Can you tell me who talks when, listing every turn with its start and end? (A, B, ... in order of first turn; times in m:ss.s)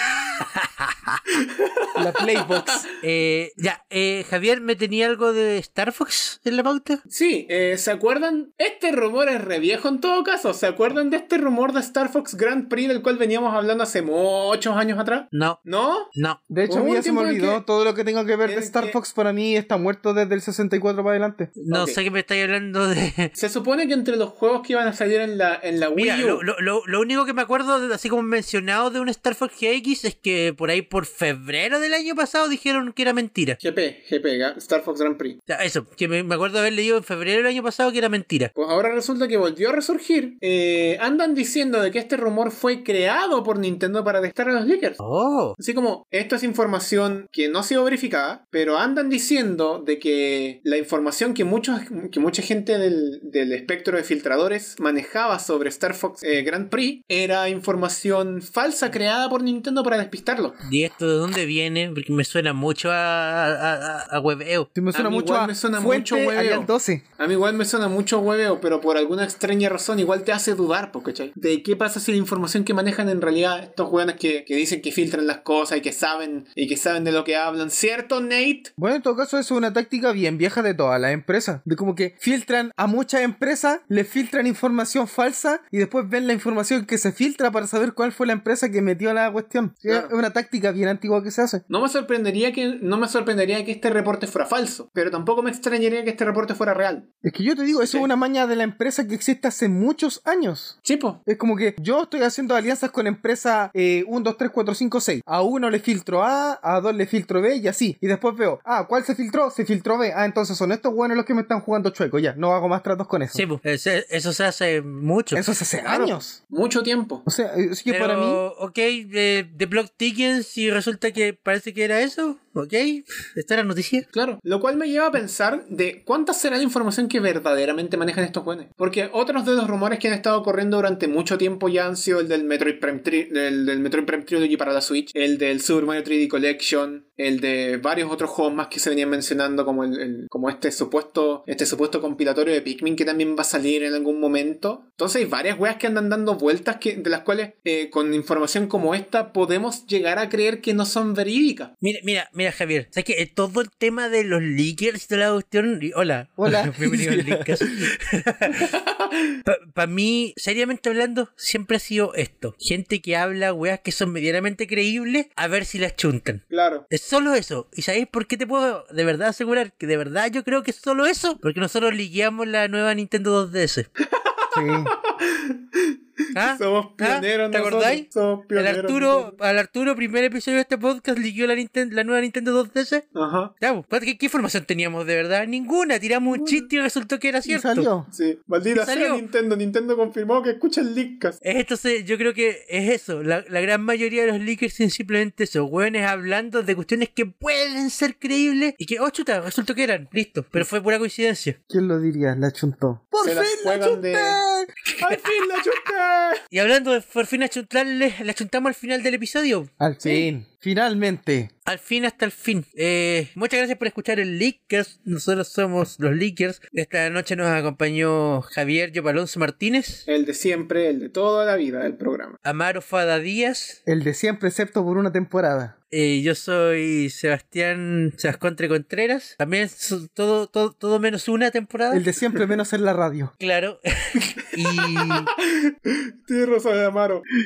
0:00.1-0:01.2 A
0:01.4-0:02.8 B
0:02.0-0:02.9 C
0:03.0-0:07.0 A
0:07.1-0:16.1 B
0:15.3-0:15.6 A
0:16.1-0:16.4 A
0:16.5-0:21.5 C
0:16.7-0:17.6 B
0:18.4-0:19.0 B
0:21.6-0:23.3 A
0:21.7-0:22.0 B
0:23.4-0:26.4 B
0:26.0-0:33.6 A
0:33.6-0:35.4 B
0:35.5-0:38.5 A
0:38.5-0:45.0 B
0:45.0-0:45.6 A
0:45.6-1:00.6 B
1:00.6-1:04.7 A
1:04.7-1:07.0 C
1:04.9-1:18.7 B
1:18.8-1:31.6 C
1:29.8-1:30.1 B
1:31.7-1:37.0 B
1:37.2-1:40.7 C
1:40.8-1:41.2 B
1:41.2-1:53.4 C
1:53.3-1:55.4 A
1:55.3-1:56.4 C
1:55.8-1:57.2 B
1:57.2-1:58.4 C
1:57.9-2:04.0 A
2:04.1-2:31.7 B
2:31.8-2:38.7 A
2:36.4-2:37.9 C
2:38.6-2:39.4 B
2:39.4-2:53.9 A
2:46.5-2:46.8 B
2:54.0-2:59.4 B
2:54.5-2:54.9 C
2:56.3-3:03.0 A
3:03.1-3:03.5 B
3:03.6-3:07.9 A
3:06.3-3:06.6 B
3:07.4-3:08.1 C
3:08.1-3:11.4 B
3:08.7-3:09.2 A
3:11.4-3:21.6 A
3:21.7-3:24.7 C
3:23.2-3:24.4 B
3:24.9-3:25.7 A
3:25.0-3:26.4 B
3:26.5-3:29.7 A
3:29.8-3:31.5 C
3:31.6-3:40.0 A
3:40.1-3:42.4 B
3:42.4-3:43.8 A
3:43.8-3:45.7 C
3:45.9-3:52.0 A
3:51.9-3:53.3 C
3:53.4-3:55.3 A
3:54.4-3:57.2 B